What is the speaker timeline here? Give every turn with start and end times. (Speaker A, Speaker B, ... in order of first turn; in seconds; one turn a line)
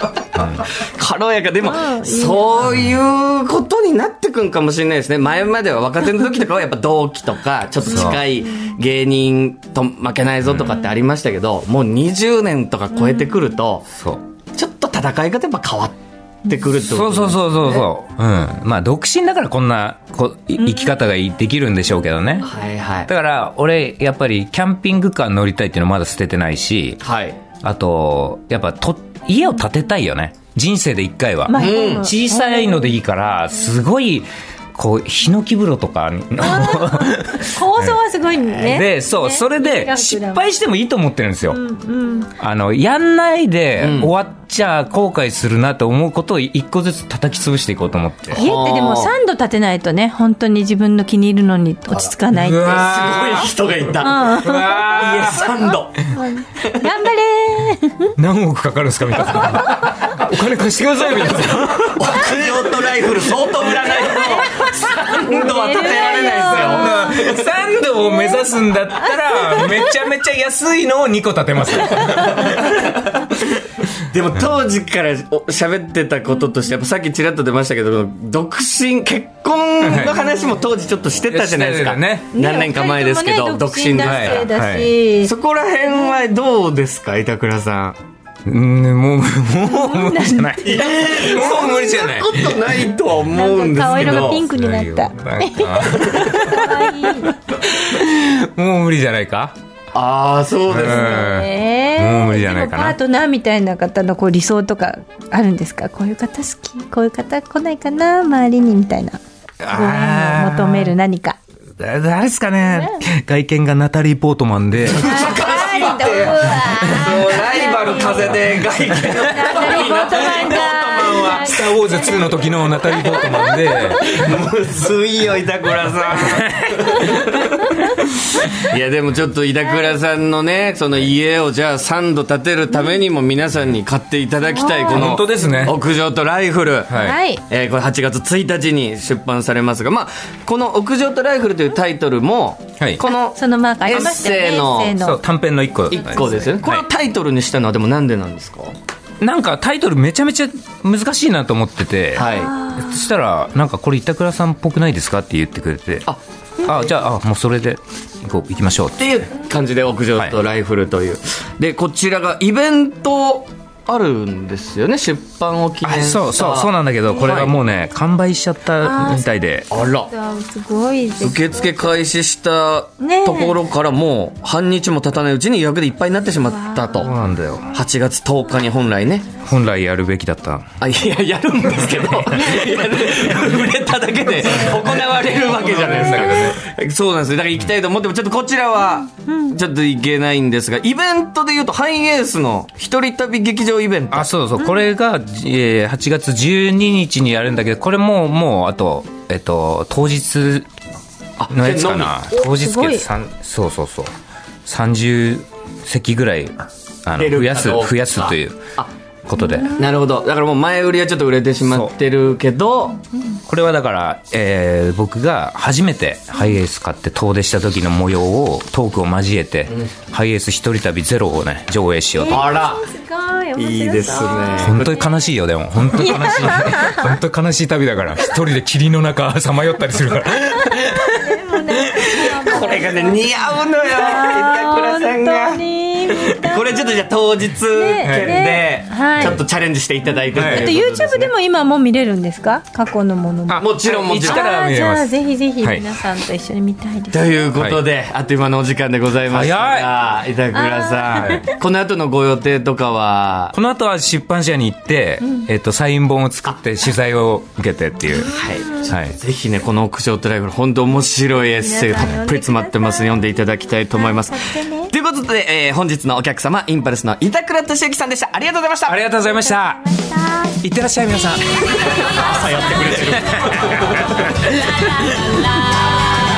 Speaker A: 0.3-0.7
Speaker B: 0.6-13.9
Speaker C: 1.6-2.7
Speaker A: 7.8-8.2
Speaker A: 10.5-10.7
Speaker C: 13.0-13.5
Speaker A: 13.9-14.2
Speaker B: 14.5-17.9
Speaker A: 16.8-22.5
Speaker C: 20.6-20.9
Speaker B: 22.4-23.1
Speaker A: 23.1-27.0
Speaker B: 27.0-27.4
Speaker A: 27.6-38.0
Speaker C: 31.5-32.9
Speaker B: 31.5-32.1
Speaker C: 36.4-40.5
Speaker A: 38.6-41.6
Speaker C: 41.5-42.3
Speaker A: 42.4-48.5
Speaker B: 43.8-44.1
Speaker B: 48.3-49.1
Speaker C: 48.4-52.8
Speaker B: 51.9-56.0
Speaker A: 52.3-53.5
Speaker C: 54.0-55.4
Speaker A: 54.3-55.5
Speaker C: 56.1-58.1
Speaker B: 56.6-56.9
Speaker A: 58.2-62.6
Speaker C: 59.4-60.0
Speaker B: 61.8-67.0
Speaker C: 64.1-67.5
Speaker A: 66.5-73.0
Speaker C: 68.2-68.5
Speaker C: 69.4-69.9
Speaker C: 72.0-72.5
Speaker B: 72.3-73.3
Speaker B: 74.1-84.5
Speaker A: 79.8-80.2
Speaker A: 81.3-82.3
Speaker C: 82.3-85.3
Speaker A: 84.0-84.9
Speaker B: 85.2-88.0
Speaker A: 88.5-92.6
Speaker C: 89.7-90.8
Speaker B: 90.6-94.4
Speaker C: 93.3-97.4
Speaker A: 93.8-99.6
Speaker B: 99.9-101.3
Speaker A: 100.7-103.0
Speaker C: 100.8-109.2
Speaker A: 109.6-110.9
Speaker C: 109.7-111.4
Speaker A: 111.8-115.2
Speaker B: 114.8-121.5
Speaker C: 115.0-124.3
Speaker A: 120.2-124.2
Speaker B: 123.2-127.7
Speaker A: 126.1-127.6
Speaker B: 128.5-145.0
Speaker C: 134.6-135.2
Speaker A: 134.9-135.8
Speaker A: 136.9-137.2
Speaker C: 136.9-137.4
Speaker C: 143.0-145.2
Speaker A: 144.9-146.8
Speaker B: 145.9-148.8
Speaker A: 149.2-156.1
Speaker B: 152.2-152.5
Speaker C: 152.2-152.9
Speaker B: 156.1-156.9
Speaker A: 156.6-159.2
Speaker B: 159.0-167.5
Speaker A: 165.8-169.7
Speaker C: 168.8-169.3
Speaker B: 169.7-170.1
Speaker C: 169.8-171.8
Speaker B: 171.2-177.1
Speaker C: 173.0-173.6
Speaker C: 176.6-177.0
Speaker A: 177.0-177.7
Speaker B: 177.7-179.3
Speaker A: 179.4-180.7
Speaker B: 180.8-194.3
Speaker A: 184.5-186.6
Speaker A: 194.1-200.7
Speaker B: 201.4-202.5
Speaker A: 201.5-204.1
Speaker C: 202.5-203.1
Speaker A: 204.7-208.6
Speaker B: 207.2-208.9
Speaker A: 209.3-209.7
Speaker C: 209.4-209.8
Speaker B: 209.7-213.0
Speaker A: 211.7-211.9
Speaker A: 213.5-222.5
Speaker C: 222.2-225.2
Speaker B: 222.3-222.9
Speaker B: 223.6-225.0
Speaker A: 224.6-231.4
Speaker C: 226.1-227.1
Speaker C: 230.5-237.1
Speaker B: 231.8-241.3
Speaker C: 237.7-239.4
Speaker A: 238.0-238.4
Speaker C: 240.3-243.6
Speaker A: 240.3-240.7
Speaker A: 243.5-245.9
Speaker B: 243.6-244.4
Speaker C: 244.2-247.4
Speaker B: 247.1-253.6
Speaker A: 247.6-247.8
Speaker A: 249.3-249.9
Speaker C: 250.6-251.3
Speaker A: 251.1-251.4
Speaker A: 253.5-259.1
Speaker B: 258.3-269.1
Speaker C: 261.5-263.1
Speaker C: 264.0-264.9
Speaker A: 268.9-269.9
Speaker C: 269.2-270.6
Speaker A: 270.6-272.1
Speaker B: 271.7-274.4
Speaker C: 271.9-272.5
Speaker A: 272.8-275.6
Speaker C: 274.8-275.1